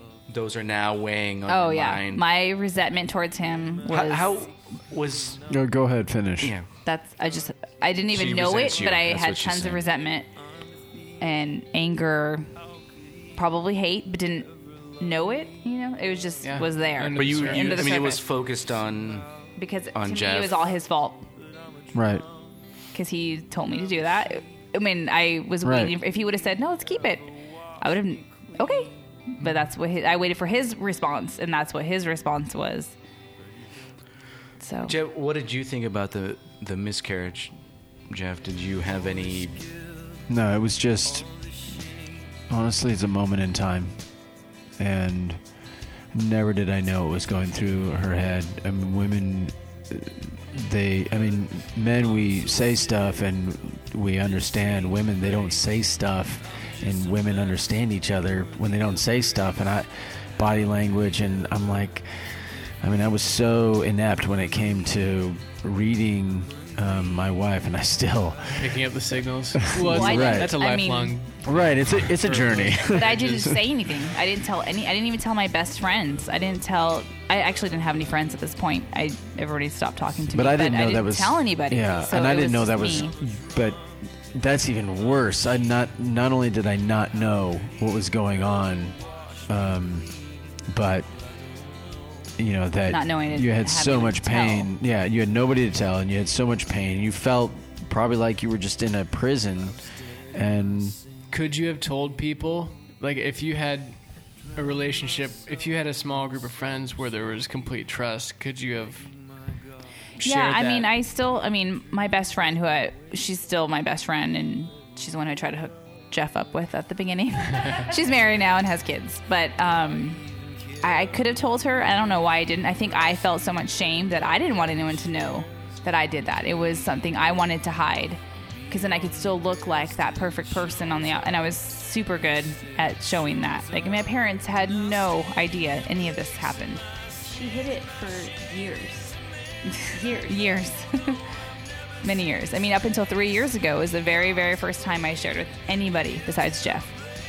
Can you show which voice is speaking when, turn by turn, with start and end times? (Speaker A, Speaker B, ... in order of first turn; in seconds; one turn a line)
Speaker A: 0.3-2.2
Speaker B: 1.5-4.3
Speaker A: 3.9-5.4
Speaker C: 5.5-6.5
Speaker A: 6.4-6.7
Speaker B: 6.8-10.3
Speaker A: 8.1-9.8
Speaker B: 11.2-12.5
Speaker B: 13.3-18.2
Speaker D: 16.4-18.1
Speaker A: 17.1-19.3
Speaker B: 19.6-21.2
Speaker A: 19.9-20.6
Speaker C: 21.9-22.2
Speaker B: 22.9-32.9
Speaker C: 25.6-25.9
Speaker B: 34.6-34.9
Speaker A: 34.9-37.5
Speaker A: 38.1-39.7
Speaker C: 40.3-41.3
Speaker C: 42.5-43.9
Speaker C: 44.8-45.4
Speaker C: 46.1-68.8
Speaker D: 68.6-73.5
Speaker C: 69.5-70.5
Speaker B: 69.8-71.2
Speaker C: 71.4-73.6
Speaker B: 72.9-83.1
Speaker C: 80.3-90.1
Speaker C: 90.7-91.1
Speaker C: 92.4-99.8
Speaker B: 92.9-94.7
Speaker C: 100.3-101.0
Speaker D: 101.3-104.0
Speaker D: 104.5-109.1
Speaker B: 110.2-120.2
Speaker D: 110.2-110.9
Speaker B: 120.8-136.8
Speaker E: 137.2-139.2
Speaker B: 139.7-141.3
Speaker E: 139.9-140.4
Speaker B: 142.0-147.0